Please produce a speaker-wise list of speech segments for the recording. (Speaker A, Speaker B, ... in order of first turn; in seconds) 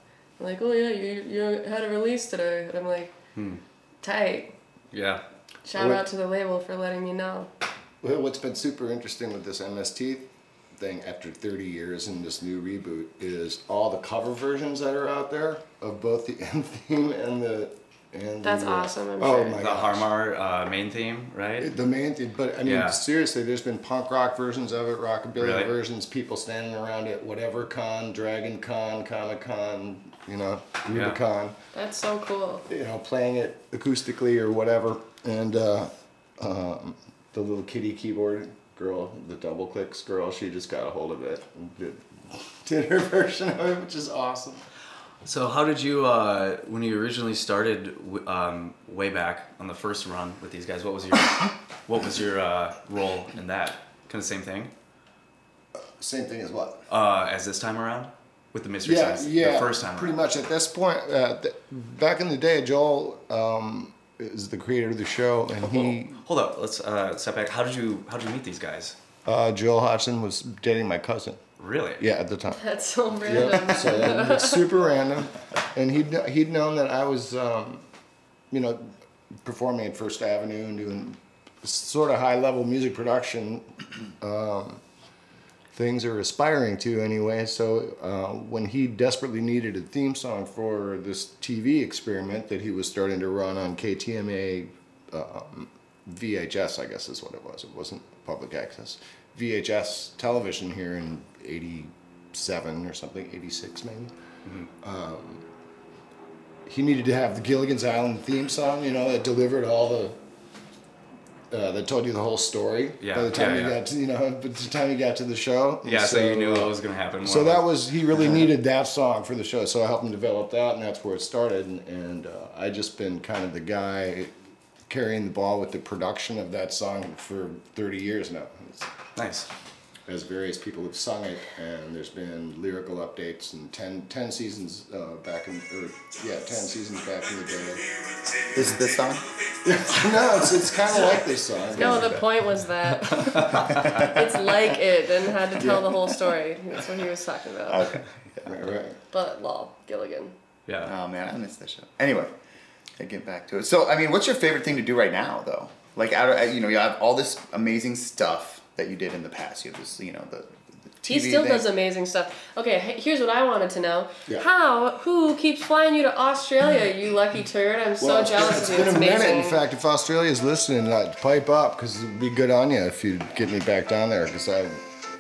Speaker A: 0.4-3.1, 4.0-4.5, 5.7-7.5, 18.4-19.6, 31.7-32.6, 72.6-74.7, 141.7-147.9, 149.1-150.3, 161.1-169.6
Speaker B: 3.3-3.6, 4.9-5.2, 19.6-21.7, 22.6-23.0, 25.4-25.7, 30.9-31.2, 45.2-54.7, 56.9-60.1, 65.6-69.0, 71.6-72.0, 113.0-113.8, 115.8-117.6, 129.2-129.5, 143.1-144.0, 150.7-150.9
Speaker C: 5.7-6.0, 8.0-20.1, 21.6-31.6, 32.7-44.6, 55.8-56.8, 58.8-66.2, 69.2-71.4, 72.0-72.6, 73.2-77.8, 78.5-83.7, 84.2-84.8, 85.7-104.1, 104.8-105.4, 106.7-110.2, 111.5-124.3, 124.9-128.9, 130.1-138.0, 139.6-142.3, 145.6-146.1, 148.4-149.0, 168.0-174.8
Speaker D: 138.5-139.3, 143.8-144.2, 147.7-148.7, 150.8-152.3, 153.0-161.7